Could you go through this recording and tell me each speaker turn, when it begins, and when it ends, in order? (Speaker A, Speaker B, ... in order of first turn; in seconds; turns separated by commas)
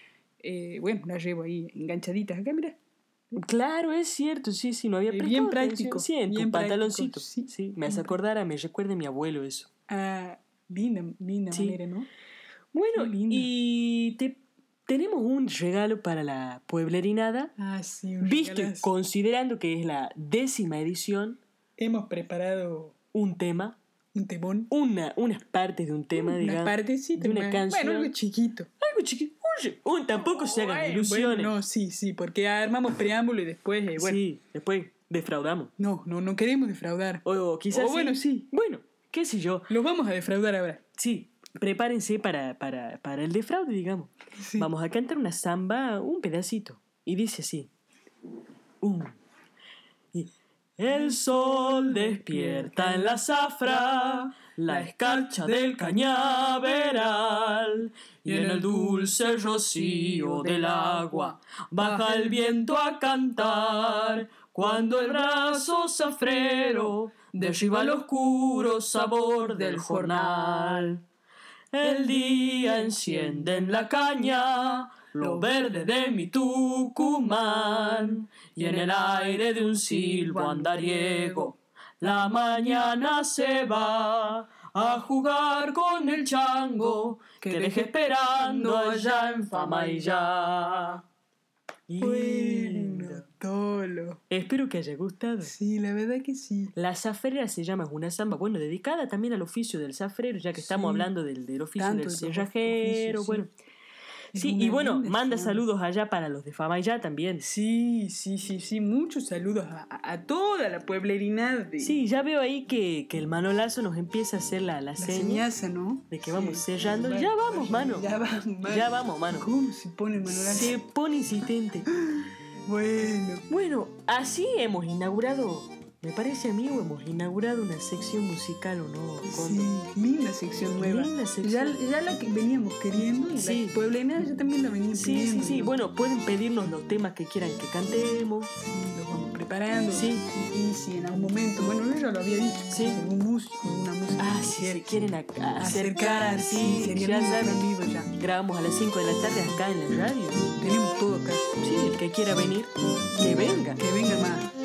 Speaker A: 0.4-2.8, Speaker B: 3.4-9.7, Speaker A: 5.1-8.1, Speaker A: 9.9-12.1, Speaker B: 11.5-11.8, Speaker B: 12.7-17.5, Speaker A: 12.9-13.5, Speaker A: 17.6-18.9, Speaker B: 18.2-21.4, Speaker A: 21.8-22.9, Speaker B: 23.1-23.8, Speaker A: 24.1-24.7, Speaker B: 24.7-28.1, Speaker A: 26.1-28.7, Speaker B: 28.8-31.6, Speaker A: 30.1-34.2, Speaker B: 34.0-35.7, Speaker A: 35.8-38.5, Speaker B: 37.2-39.7, Speaker A: 39.7-40.8, Speaker B: 41.0-47.7, Speaker A: 44.4-44.7, Speaker B: 48.8-49.2, Speaker B: 50.1-71.0, Speaker A: 51.7-53.0, Speaker A: 54.7-55.8, Speaker A: 58.3-59.1, Speaker A: 60.0-61.3, Speaker A: 69.6-70.3, Speaker B: 71.7-91.0, Speaker A: 87.4-89.4, Speaker B: 91.9-93.2, Speaker A: 92.0-94.2, Speaker B: 94.3-95.5, Speaker A: 95.4-96.8, Speaker B: 96.8-103.5, Speaker A: 100.6-101.1, Speaker A: 101.8-103.5, Speaker B: 104.3-107.5, Speaker A: 104.3-105.6, Speaker A: 107.4-112.0, Speaker B: 111.8-115.5, Speaker A: 115.0-120.8, Speaker B: 116.1-118.1, Speaker B: 118.6-119.5, Speaker B: 120.3-121.9, Speaker A: 122.0-123.5, Speaker B: 123.5-129.7, Speaker A: 129.3-135.8, Speaker B: 130.8-131.8, Speaker B: 133.4-133.7, Speaker B: 134.9-138.5, Speaker A: 138.6-144.9, Speaker B: 139.9-140.3, Speaker B: 142.7-143.0, Speaker B: 144.2-147.6, Speaker A: 145.6-148.1, Speaker B: 148.2-150.5, Speaker A: 150.6-151.4, Speaker B: 151.6-153.8, Speaker A: 153.8-154.5